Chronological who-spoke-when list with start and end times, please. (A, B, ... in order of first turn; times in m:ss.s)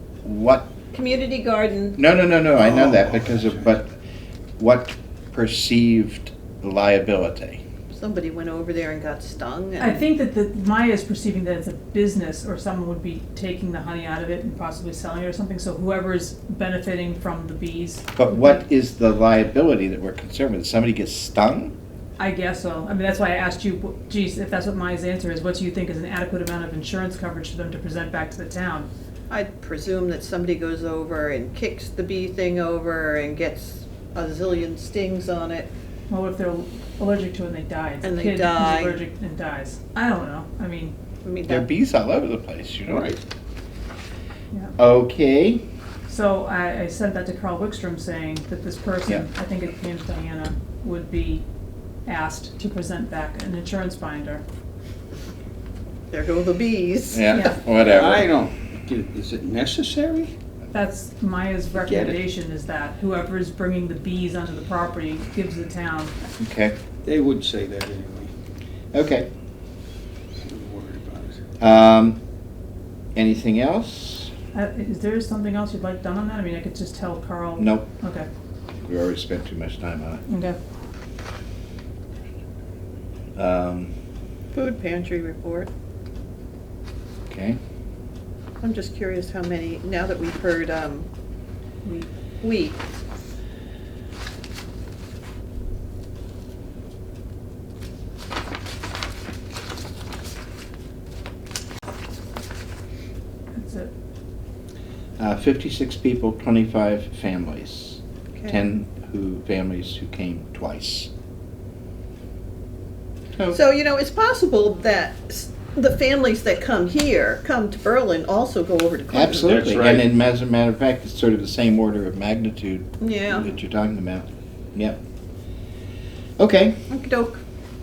0:00.2-0:00.7 A
0:00.9-0:02.0 B
0:02.0-0:04.0 A
0:02.6-0:03.8 C
0:04.6-0:07.6 A
0:07.9-0:10.0 B
0:09.8-0:18.6 D
0:18.2-0:21.8 A
0:22.2-0:28.9 D
0:29.3-0:35.7 B
0:36.1-0:41.0 D
0:38.0-0:39.0 B
0:41.2-0:41.7 B
0:41.5-0:43.1 A
0:42.8-0:43.2 C
0:44.8-0:45.6 A
0:46.1-0:51.4 D
0:52.1-0:54.4 D
0:56.1-0:57.2 B
0:57.1-0:58.3 A
0:57.3-0:57.6 D
0:57.7-1:00.3 C
1:00.7-1:06.2 D
1:01.7-1:02.2 C
1:06.4-1:06.8 A
1:07.0-1:08.3 C
1:08.9-1:09.3 A
1:10.4-1:11.4 C
1:11.6-1:12.2 A
1:13.2-1:14.3 A
1:14.5-1:18.3 D
1:17.6-1:17.9 A
1:18.8-1:20.2 A
1:20.3-1:20.6 D
1:23.4-1:23.9 A
1:24.5-1:25.7 B
1:27.3-1:27.6 A
1:28.6-1:31.1 B
1:32.4-1:32.8 B
1:43.5-1:43.9 D
1:45.2-1:51.1 A
1:48.3-1:48.6 B
1:53.5-1:59.6 B
1:59.1-2:05.0 A
1:59.3-2:00.1 C
2:03.0-2:03.5 B
2:06.4-2:06.8 A
2:06.9-2:07.4 B